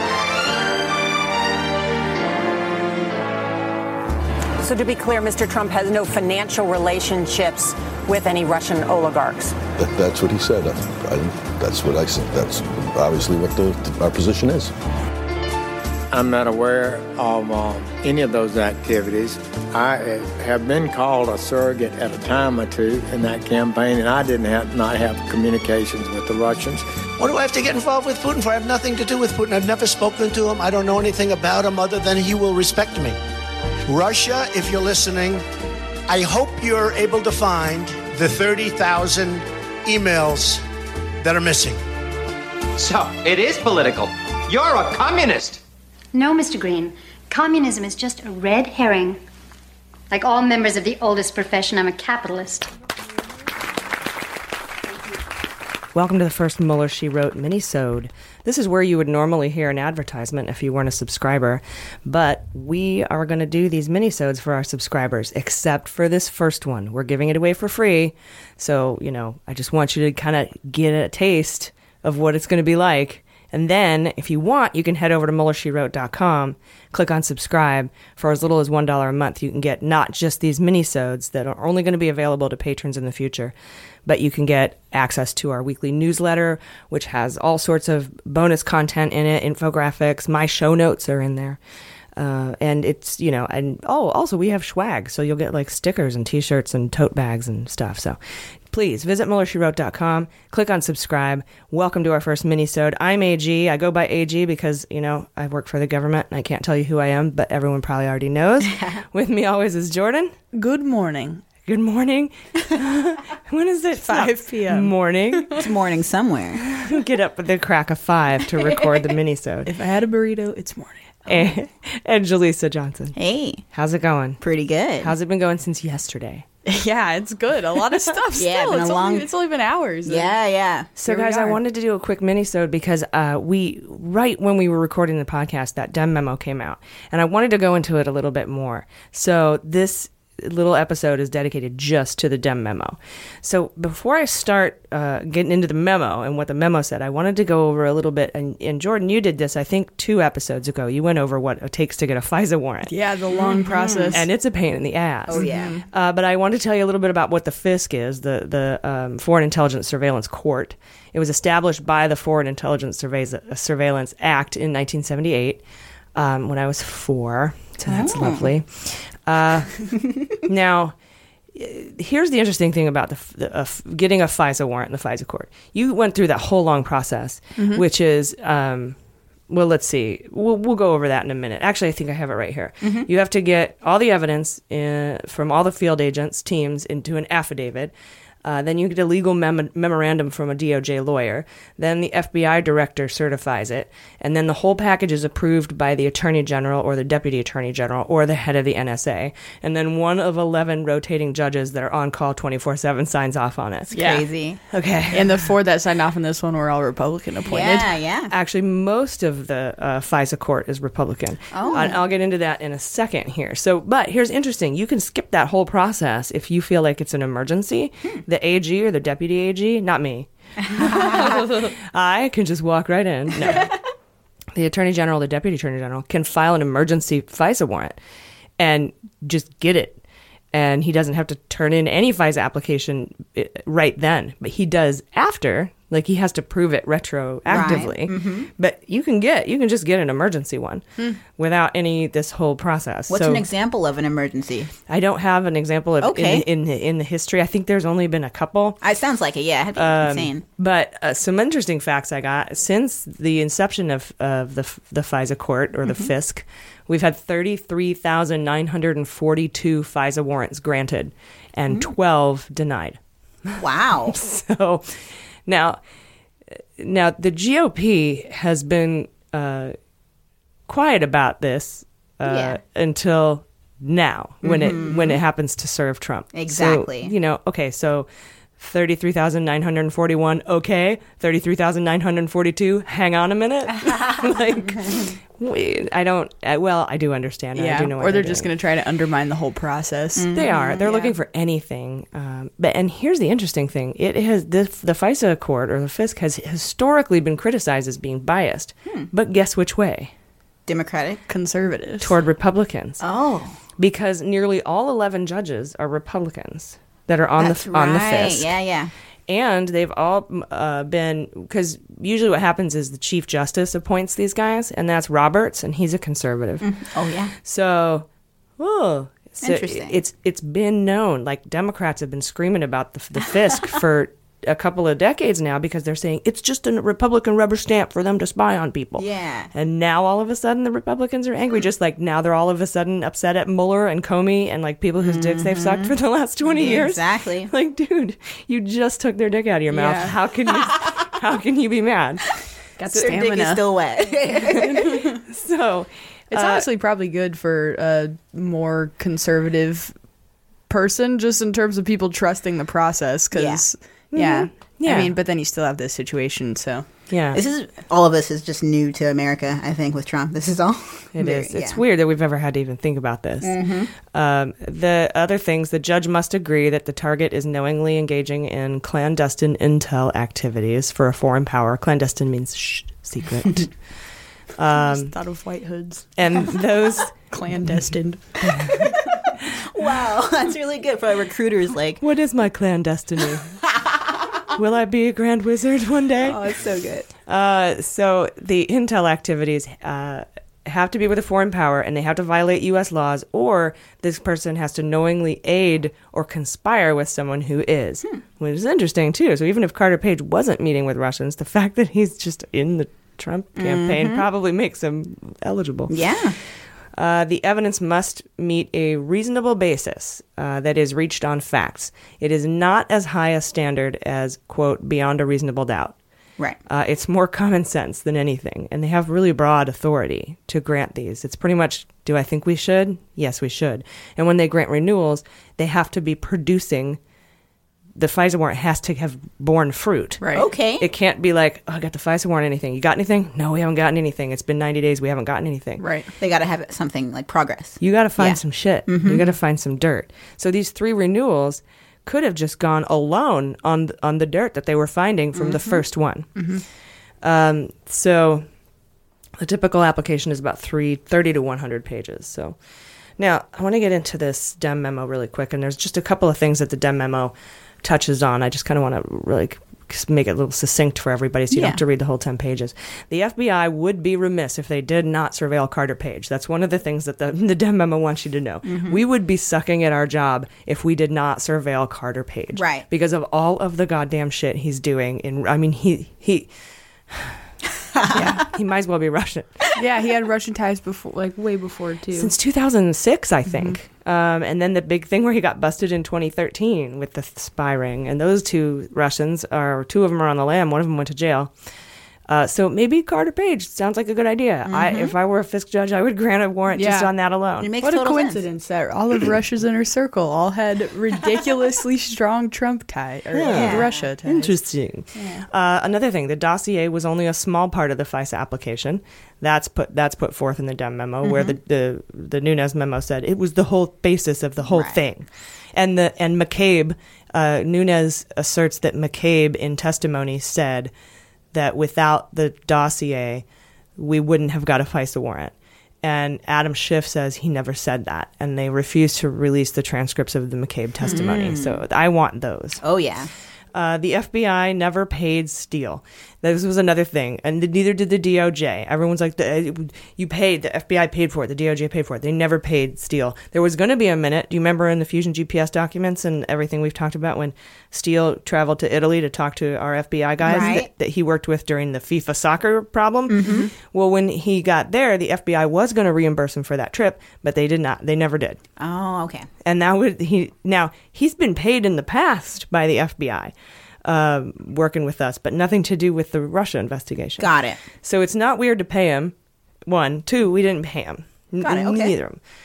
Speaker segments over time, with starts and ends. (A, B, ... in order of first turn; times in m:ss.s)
0:04.6-0:09.6 A
0:09.8-0:14.7 B
0:16.1-0:26.8 C
0:27.2-0:33.2 D
0:33.9-0:35.4 D
0:36.1-0:40.6 D
0:41.2-0:41.8 D
0:42.8-0:45.6 E
0:46.1-0:49.2 F
0:50.1-0:52.7 F
0:55.9-1:23.5 G
1:24.1-1:31.6 G
1:32.2-1:38.2 G
1:38.7-1:50.3 G
1:48.6-1:49.0 H
1:50.5-1:51.4 I
1:51.7-1:55.5 G
1:54.0-1:55.4 I
1:55.6-1:56.6 H
1:56.7-1:59.7 G
1:59.7-2:01.3 I
2:01.3-2:03.2 G
2:03.2-2:03.6 H
2:03.7-2:04.4 G
2:04.4-2:05.1 H
2:05.0-2:06.5 G
2:06.7-2:10.3 I
2:08.4-2:09.3 H
2:10.1-2:10.9 H
2:11.0-2:11.6 I
2:11.0-2:32.9 G
2:32.9-2:34.2 I
2:33.4-2:34.1 H
2:34.1-2:45.6 G
2:35.3-2:35.8 H
2:35.3-2:35.8 I
2:46.2-2:51.0 G
2:47.9-2:48.5 H
2:51.5-2:59.0 G
2:57.6-2:57.8 I
2:59.5-3:07.9 G
3:02.8-3:03.1 H
3:08.4-3:23.9 G
3:23.9-3:24.6 H
3:23.9-3:24.2 I
3:24.7-3:25.3 G
3:25.1-3:27.9 I
3:27.5-3:28.3 H
3:28.3-3:43.8 G
3:31.5-3:32.0 H
3:40.8-3:41.3 H
3:44.6-3:48.0 G
3:48.6-3:50.0 G
3:50.5-4:03.4 G
3:57.5-3:58.5 H
4:03.1-4:04.7 H
4:04.9-4:08.8 G
4:06.0-4:06.5 H
4:08.8-4:10.4 H
4:09.8-4:25.8 G
4:15.8-4:16.1 H
4:23.6-4:24.2 H
4:26.8-4:29.8 G
4:30.7-4:48.5 G
4:32.3-4:32.6 H
4:34.4-4:35.2 H
4:36.3-4:37.1 H
4:47.6-4:50.3 I
4:50.2-4:51.1 H
4:50.3-5:00.1 G
5:00.7-5:01.2 H
5:01.3-5:02.1 I
5:02.0-5:03.0 G
5:03.0-5:03.6 H
5:03.8-5:08.5 G
5:07.4-5:08.9 H
5:09.3-5:16.7 G
5:16.6-5:17.3 H
5:17.4-5:18.1 G
5:18.6-5:42.3 G
5:19.4-5:20.0 H
5:29.0-5:29.5 H
5:35.0-5:35.9 H
5:36.5-5:37.5 H
5:39.7-5:40.1 I
5:42.8-5:43.6 I
5:43.0-5:45.0 H
5:44.5-5:45.0 I
5:44.5-5:46.6 G
5:46.3-5:50.0 I
5:50.7-5:56.9 I
5:53.3-5:53.6 H
5:54.1-5:55.1 G
5:57.1-5:57.4 G
5:57.3-6:01.8 H
6:01.2-6:13.8 G
6:03.4-6:03.9 H
6:14.6-6:15.1 G
6:14.7-6:16.5 I
6:16.2-6:17.2 G
6:17.1-6:18.7 I
6:18.4-6:19.0 G
6:19.7-6:22.0 H
6:22.0-6:23.6 G
6:23.8-6:24.2 H
6:24.6-6:26.4 G
6:26.2-6:27.1 H
6:27.3-6:46.3 G
6:43.6-6:44.2 H
6:45.9-6:46.4 H
6:46.9-6:56.0 G
6:56.7-7:07.0 G
7:08.0-7:10.2 G
7:10.2-7:10.5 I
7:10.3-7:10.9 H
7:10.8-7:15.9 G
7:15.8-7:16.1 I
7:16.2-7:19.3 H
7:17.8-7:26.5 G
7:25.4-7:25.8 H
7:26.4-7:26.6 I
7:27.2-7:28.5 G
7:29.4-7:32.6 G
7:33.2-7:56.5 G
7:41.5-7:41.8 I
7:48.7-7:49.0 H
7:52.5-7:52.8 H
7:57.1-7:57.4 G
7:58.0-7:58.4 H
7:58.1-7:58.4 I
7:58.4-7:59.7 G
7:59.8-8:02.3 I
8:02.1-8:11.5 G
8:03.5-8:03.8 I
8:12.3-8:17.7 G
8:14.7-8:15.1 H
8:16.8-8:17.1 I
8:17.6-8:18.4 H
8:17.8-8:24.5 I
8:23.4-8:40.9 G
8:23.4-8:24.2 H
8:25.2-8:25.4 I
8:31.2-8:31.6 H
8:34.6-8:35.0 H
8:41.5-8:43.4 G
8:44.0-8:52.8 G
8:51.0-8:51.8 H
8:52.8-8:53.3 H
8:53.7-9:18.6 G
9:10.4-9:10.9 H
9:13.3-9:13.7 H
9:18.8-9:19.5 H
9:19.6-9:23.5 G
9:24.0-9:27.5 G
9:27.4-9:27.8 H
9:28.0-9:29.3 G
9:29.9-9:32.4 G
9:31.6-9:32.2 H